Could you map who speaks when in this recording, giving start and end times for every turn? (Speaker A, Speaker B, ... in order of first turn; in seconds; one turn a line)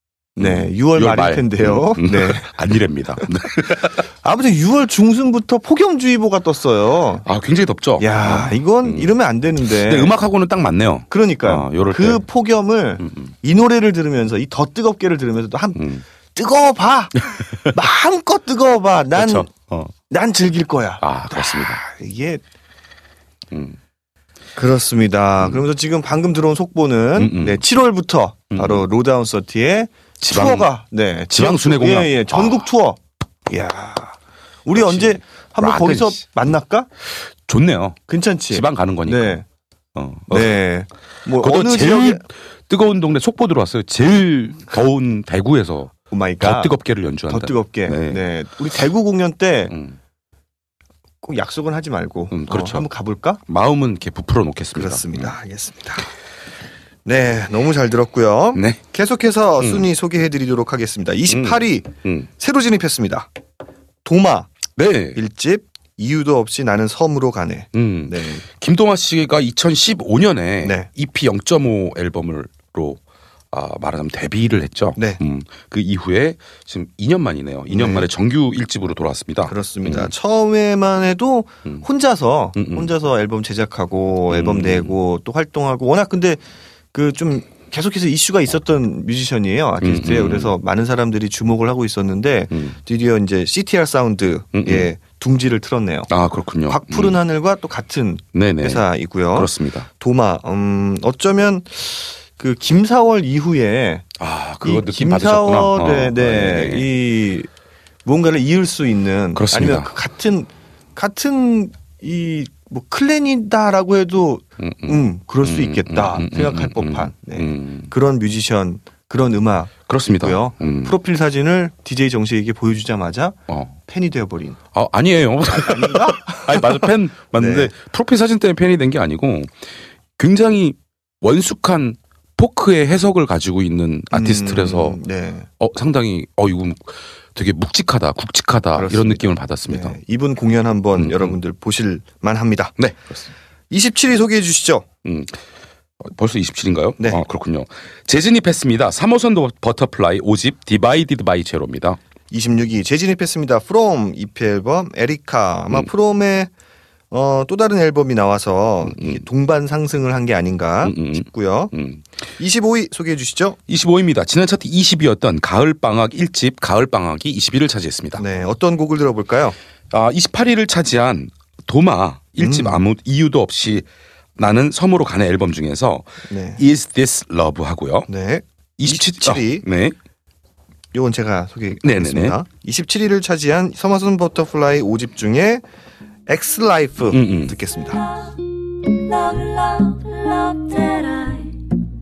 Speaker A: 0.4-2.5
Speaker B: 0.4-4.0
Speaker A: 4.1-7.2
Speaker B: 7.2-9.1
Speaker A: 8.0-10.2
Speaker B: 9.6-12.2
Speaker A: 11.1-15.8
Speaker B: 13.0-13.3
Speaker B: 15.8-16.0
Speaker A: 16.3-19.5
Speaker B: 19.1-19.9
Speaker A: 20.1-22.4
Speaker B: 21.0-21.8
Speaker B: 23.5-23.8
Speaker A: 24.6-36.9
Speaker B: 27.1-27.6
Speaker B: 28.5-28.8
Speaker B: 30.2-30.7
Speaker B: 31.3-32.6
Speaker B: 34.8-36.2
Speaker B: 37.4-38.0
Speaker A: 38.1-39.4
Speaker B: 38.5-39.4
Speaker B: 39.9-40.5
Speaker A: 40.3-42.2
Speaker B: 41.4-48.3
Speaker A: 46.1-46.7
Speaker A: 47.3-49.7
Speaker B: 49.7-50.0
Speaker A: 51.2-53.4
Speaker B: 52.3-52.8
Speaker B: 53.5-55.3
Speaker A: 54.7-56.1
Speaker A: 57.0-63.3
Speaker B: 59.6-59.9
Speaker B: 61.3-62.3
Speaker A: 64.0-64.5
Speaker B: 64.8-65.2
Speaker A: 65.1-68.4
Speaker B: 67.7-73.0
Speaker A: 70.6-70.9
Speaker B: 73.5-80.1
Speaker A: 77.7-78.1
Speaker A: 79.4-86.4
Speaker B: 82.5-82.9
Speaker B: 84.3-85.0
Speaker A: 86.9-96.1
Speaker B: 89.8-90.5
Speaker B: 92.5-92.8
Speaker B: 94.5-94.9
Speaker B: 96.1-97.2
Speaker A: 96.7-104.0
Speaker B: 98.3-98.8
Speaker B: 99.3-99.9
Speaker B: 104.2-106.9
Speaker A: 104.6-107.5
Speaker A: 108.0-124.6
Speaker B: 109.3-109.9
Speaker B: 114.6-117.9
Speaker B: 119.9-120.9
Speaker B: 123.5-123.7
Speaker B: 124.7-129.5
Speaker A: 125.5-127.7
Speaker B: 130.2-135.0
Speaker A: 134.1-135.5
Speaker B: 135.6-140.0
Speaker A: 138.8-142.8
Speaker B: 140.9-141.4
Speaker B: 142.8-143.2
Speaker A: 143.7-144.9
Speaker B: 145.0-145.4
Speaker B: 146.0-152.0
Speaker A: 152.3-156.5
Speaker A: 157.1-161.7
Speaker B: 160.8-162.0
Speaker A: 162.4-163.6
Speaker B: 163.7-168.2
Speaker A: 168.2-169.6
Speaker B: 169.9-173.9
Speaker A: 172.4-172.8
Speaker B: 174.4-176.1
Speaker A: 176.3-176.6
Speaker B: 176.6-178.1
Speaker A: 178.1-179.7
Speaker B: 178.8-179.9
Speaker A: 180.9-185.6
Speaker B: 181.8-182.4
Speaker A: 186.3-188.0
Speaker B: 187.1-187.6
Speaker C: 189.0-191.6